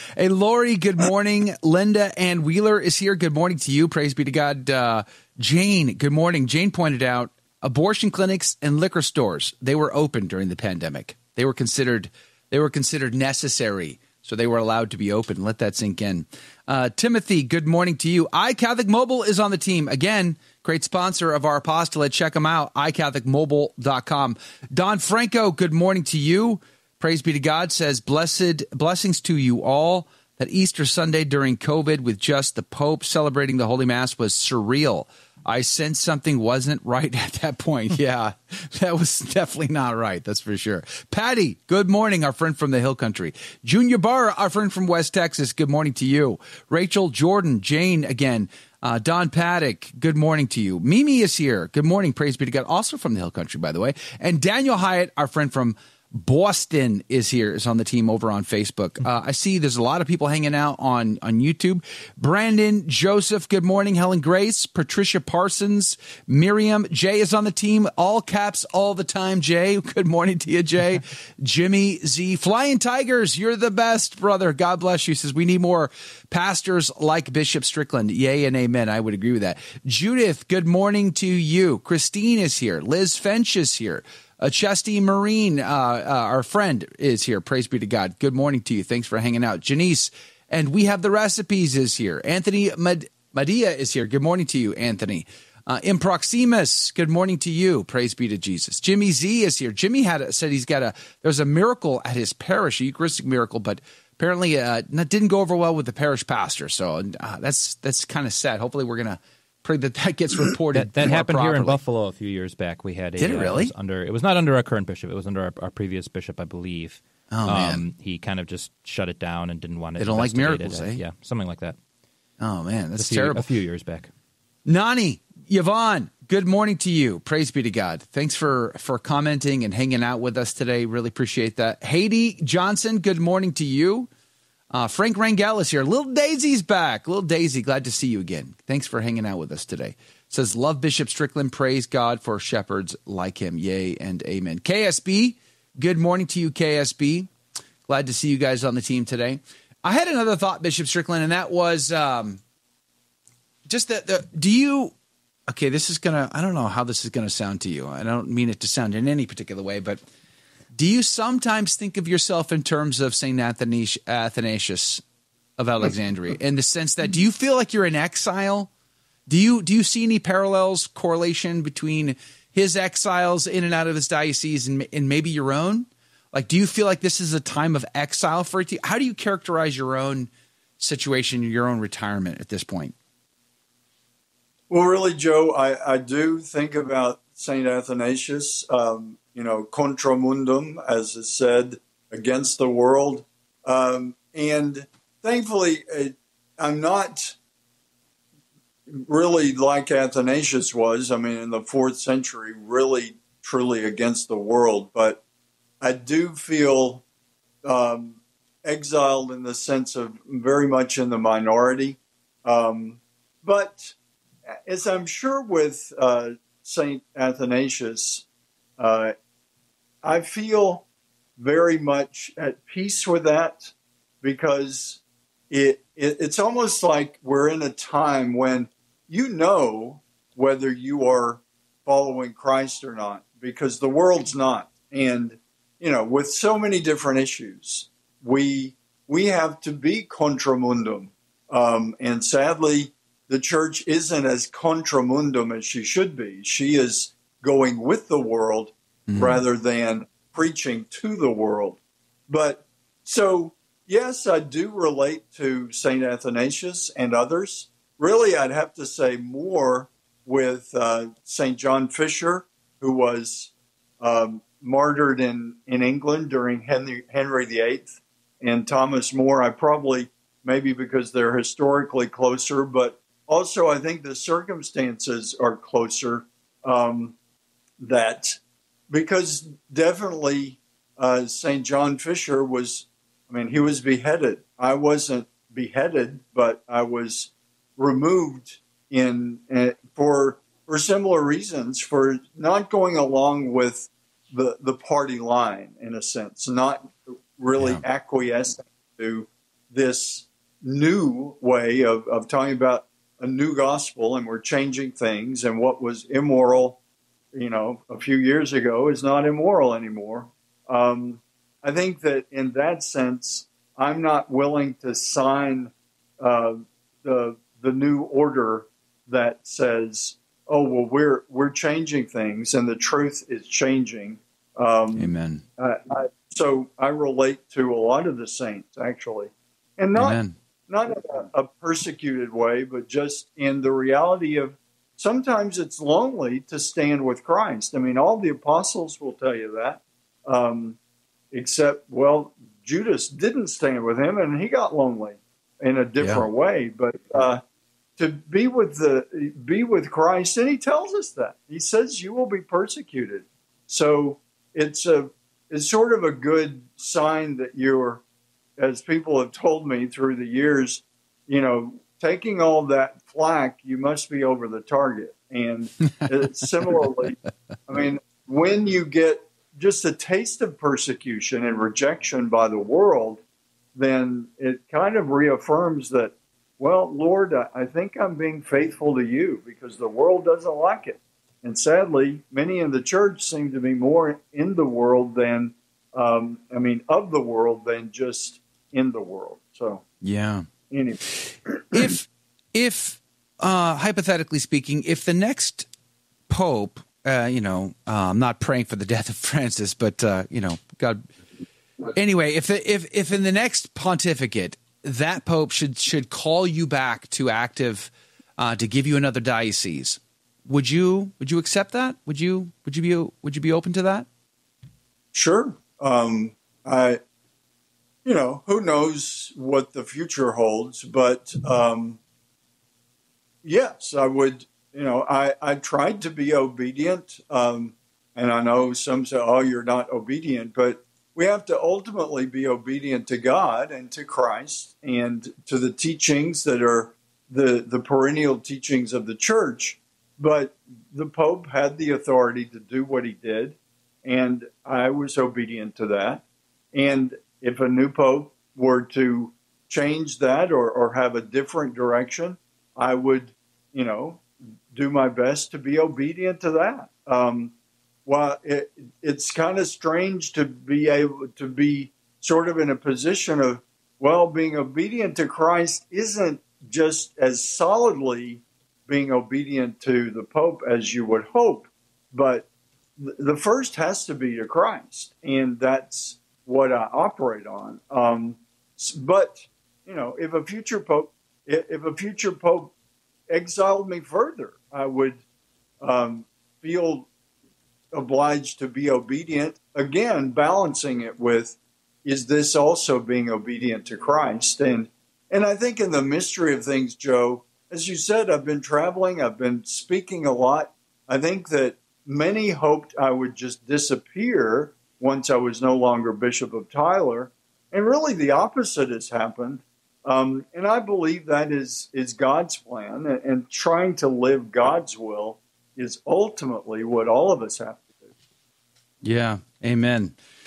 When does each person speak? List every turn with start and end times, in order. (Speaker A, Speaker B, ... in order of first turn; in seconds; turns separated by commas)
Speaker A: 0.2-111.8, Speaker B: 110.7-121.8, Speaker A: 113.2-113.7, Speaker A: 117.3-117.8, Speaker A: 120.0-121.0, Speaker A: 122.4-123.5, Speaker B: 123.0-124.1, Speaker A: 124.7-134.1, Speaker A: 134.7-147.3, Speaker A: 147.9-152.4, Speaker A: 153.7-154.9, Speaker A: 155.5-160.0, Speaker A: 160.7-165.0, Speaker A: 165.6-168.7, Speaker A: 169.3-182.9, Speaker C: 184.7-197.4, Speaker C: 198.9-205.2, Speaker C: 205.8-207.0, Speaker C: 207.6-213.9, Speaker C: 214.7-218.2, Speaker C: 218.8-219.2, Speaker C: 220.0-220.8, Speaker C: 221.4-277.1, Speaker A: 249.1-249.4, Speaker C: 277.8-306.8, Speaker A: 297.6-297.9, Speaker C: 307.3-340.8, Speaker A: 325.0-325.4, Speaker A: 329.9-330.4, Speaker C: 341.3-347.4, Speaker A: 346.0-346.3, Speaker C: 348.0-358.0, Speaker C: 358.6-367.2, Speaker C: 367.7-373.2, Speaker C: 373.8-389.8, Speaker A: 390.0-390.5, Speaker C: 390.7-391.6, Speaker A: 391.1-395.7, Speaker A: 396.3-401.1, Speaker A: 401.9-414.1, Speaker C: 415.1-417.0, Speaker C: 418.1-422.0, Speaker C: 423.4-457.5, Speaker C: 458.1-472.5, Speaker C: 473.0-482.7, Speaker C: 483.3-485.2, Speaker C: 485.8-487.1, Speaker C: 487.9-518.1, Speaker A: 519.0-520.2